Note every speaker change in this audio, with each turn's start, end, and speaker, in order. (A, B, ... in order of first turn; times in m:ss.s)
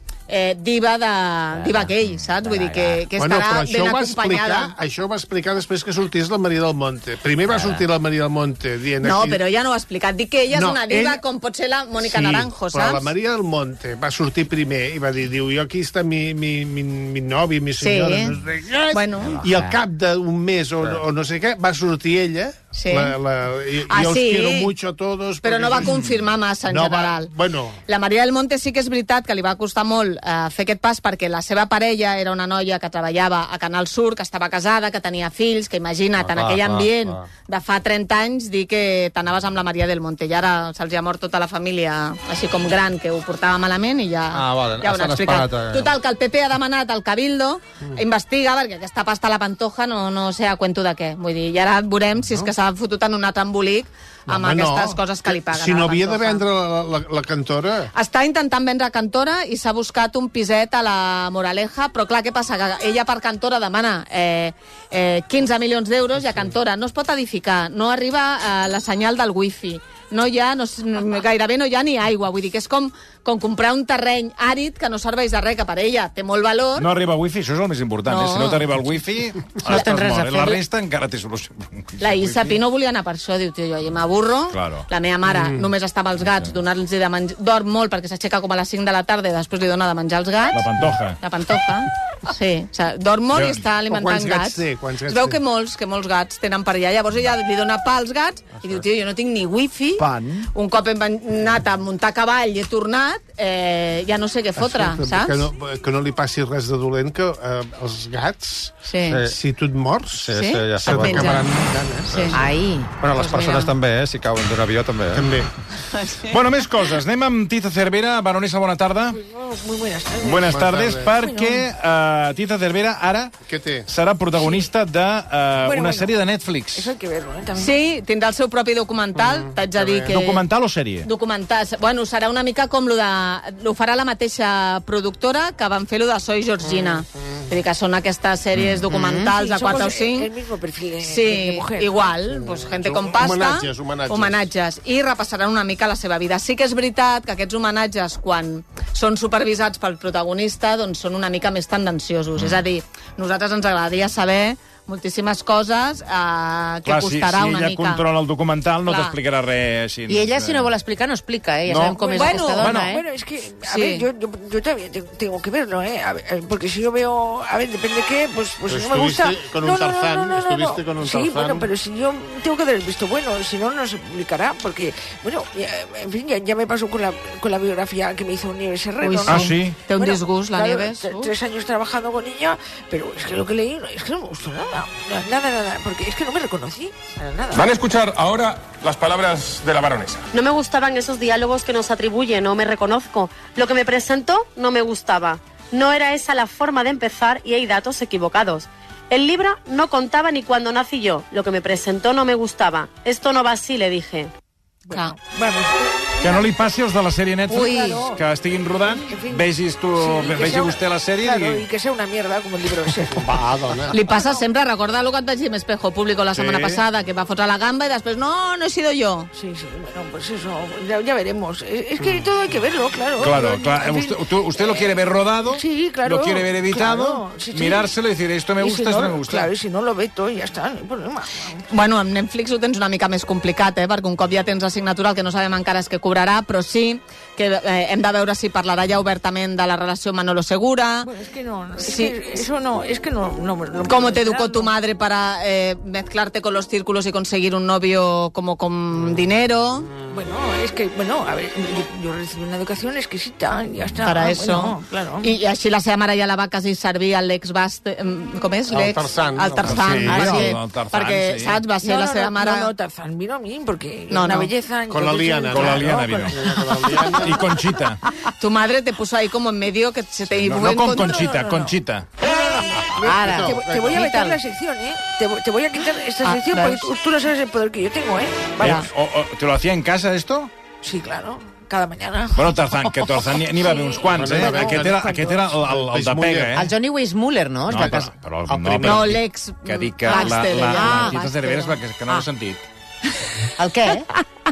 0:00.3-0:04.8 A
0:01.6-0:03.0 B
0:03.1-0:09.4 C
0:07.5-0:07.8 B
0:09.0-0:13.1 A
0:10.5-0:11.2 C
0:12.0-0:26.1 C
0:17.8-0:18.4 A
0:18.9-0:19.4 A
0:19.4-0:19.7 B
0:22.8-0:23.2 A
0:23.9-0:24.7 A
0:25.4-0:27.3 A
0:26.7-0:27.8 C
0:27.9-0:56.4 A
0:36.2-0:37.3 D
0:44.3-0:45.9 D
0:52.2-0:52.5 C
0:54.3-0:57.9 C
0:57.9-1:16.9 A
1:16.8-1:22.6 E
1:18.1-1:18.6 A
1:19.6-1:20.6 B
1:22.0-1:30.7 A
1:24.5-1:24.9 E
1:25.3-1:25.7 C
1:30.5-1:31.2 E
1:31.2-1:45.5 A
1:33.3-1:33.6 E
1:33.8-1:35.4 C
1:44.6-1:50.3 C
1:48.9-1:49.2 A
1:49.1-1:49.4 D
1:50.1-1:51.5 D
1:50.3-1:51.5 A
1:50.8-1:52.4 C
1:52.1-1:52.4 A
1:52.1-1:52.4 D
1:52.3-1:52.9 B
1:53.0-1:55.3 D
1:53.1-1:53.7 A
1:55.2-1:55.5 C
1:55.9-1:56.3 A
1:56.3-1:59.2 E
1:59.1-2:00.6 F
2:00.2-2:03.4 E
2:00.5-2:01.1 C
2:01.1-2:01.7 F
2:03.5-2:03.9 C
2:03.9-2:06.9 E
2:04.4-2:04.7 F
2:05.6-2:06.2 F
2:06.8-2:07.8 F
2:07.6-2:10.4 A
2:09.2-2:10.2 C
2:10.1-2:11.1 E
2:11.0-2:20.3 A
2:16.6-2:17.4 C
2:18.9-2:19.2 B
2:19.2-2:22.1 F
2:21.0-2:38.0 A
2:22.3-2:24.4 C
2:36.9-2:40.8 E
2:38.9-2:39.2 A
2:40.1-2:43.0 B
2:41.7-2:43.0 E
2:42.0-3:07.6 F
2:42.2-2:42.6 A
2:43.6-2:44.0 A
2:48.7-2:51.7 C
2:59.0-3:01.3 A
2:59.3-2:59.8 E
3:07.5-3:10.3 G
3:10.3-3:24.3 H
3:24.9-3:26.5 F
3:24.9-3:25.2 A
3:26.2-3:31.7 E
3:27.5-3:28.2 F
3:28.8-3:34.4 F
3:33.1-3:34.0 C
3:33.9-3:39.3 A
3:36.3-3:36.8 E
3:39.3-3:47.9 F
3:42.0-3:42.3 C
3:43.2-3:49.5 E
3:48.6-3:51.6 F
3:51.7-4:01.1 A
4:01.0-4:04.7 F
4:01.8-4:02.4 A
4:03.8-4:09.9 A
4:09.9-4:10.2 C
4:10.1-4:15.4 F
4:14.0-4:22.7 A
4:18.7-4:20.5 C
4:19.6-4:21.6 E
4:21.8-4:27.1 F
4:24.1-4:24.5 A
4:24.9-4:27.4 C
4:25.5-4:26.4 E
4:27.2-4:28.0 E
4:28.4-4:31.4 A
4:30.3-4:32.1 E
4:31.1-4:31.7 F
4:32.2-4:38.9 F
4:32.9-4:34.0 C
4:33.0-4:34.4 B
4:38.6-4:40.5 E
4:40.8-4:45.5 F
4:42.4-4:46.7 E
4:44.1-4:46.6 C
4:46.6-4:48.2 B
4:47.7-4:52.6 E
4:48.5-4:49.2 C
4:48.8-4:51.8 A
4:50.1-4:51.2 B
4:53.6-4:54.1 B